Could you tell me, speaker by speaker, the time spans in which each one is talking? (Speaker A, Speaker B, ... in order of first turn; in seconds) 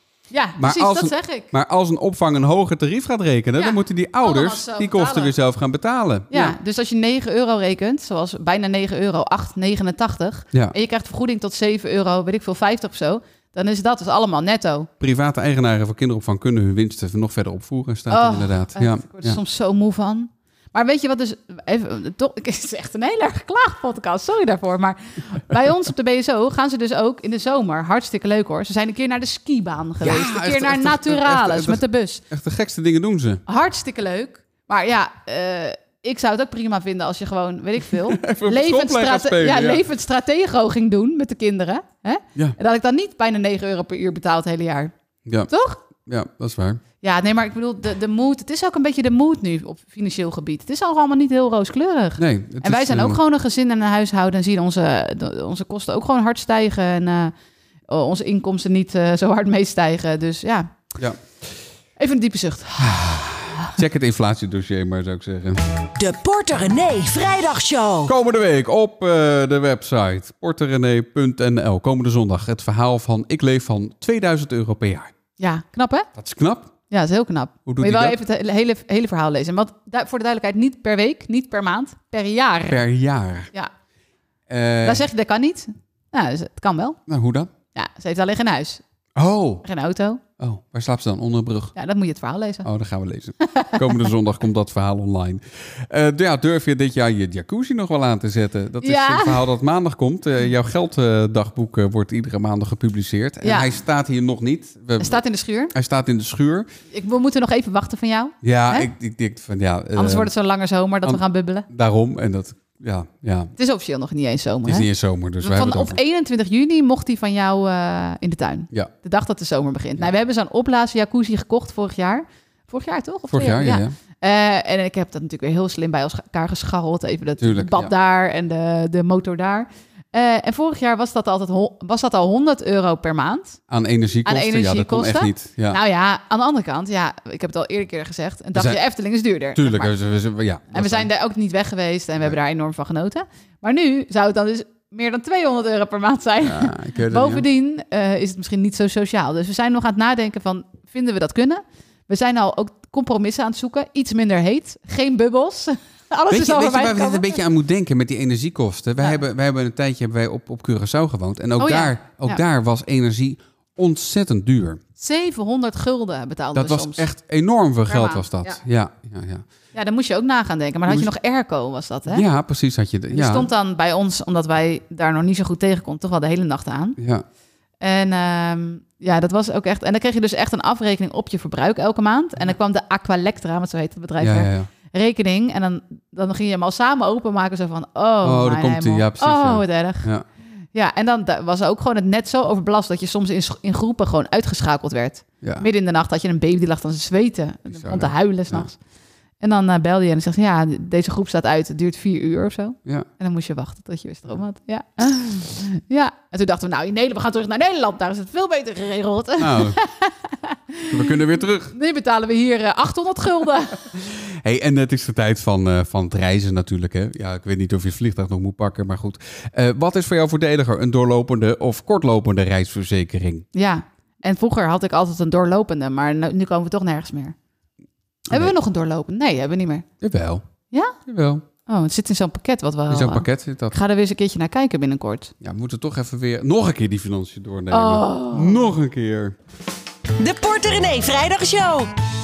Speaker A: 0.3-1.5, 3.6-5.3, 6.3-14.9, 18.1-32.2, 33.5-44.9, 45.5-45.8, 47.0-57.3, 57.9-60.7, 62.0-63.0, 75.4-76.1, 76.9-82.8, 84.8-87.0, 87.8-88.8, 89.6-90.2, 91.8-92.7, 93.4-93.8, 98.8-99.5, 103.4-103.7, 105.0-105.7, 106.9-108.9, 110.0-111.7, 113.6-114.9, 115.4-133.6, 134.3-139.9, 140.7-157.4, 161.6-162.4, 165.0-167.1, 167.9-168.6, 169.7-172.2, 173.1-177.0, 177.8-190.1, 190.7-198.8, 199.4-211.1, 211.7-213.8, 223.5-227.3, 228.3-229.8, 230.7-231.0, 231.7-235.3, 237.7-238.7
Speaker B: 0.6-6.6, 15.0-19.4, 30.0-33.4, 37.9-39.8, 45.2-46.8, 52.2-53.2, 62.8-65.6, 68.0-75.1, 76.2-76.7, 77.7-78.2, 82.7-83.5, 84.5-85.0, 87.1-87.5, 89.2-89.6, 90.4-91.8, 92.6-105.2, 105.7-106.7, 108.4-110.3, 111.0-113.5, 114.7-116.0, 123.3-123.9, 127.4-127.9, 133.7-135.8, 138.6-138.8, 139.5-141.1, 146.4-147.4, 156.3-164.8, 166.5-169.4, 172.1-173.5, 177.0-177.2, 184.2-184.7, 188.2-190.2, 195.4-195.7, 197.7-198.7, 209.4-209.8, 210.9-211.7, 213.9-223.5, 230.0-230.4, 231.1-231.4, 232.9-233.8, 235.4-239.4
Speaker C: 66.0-68.1, 240.2-241.9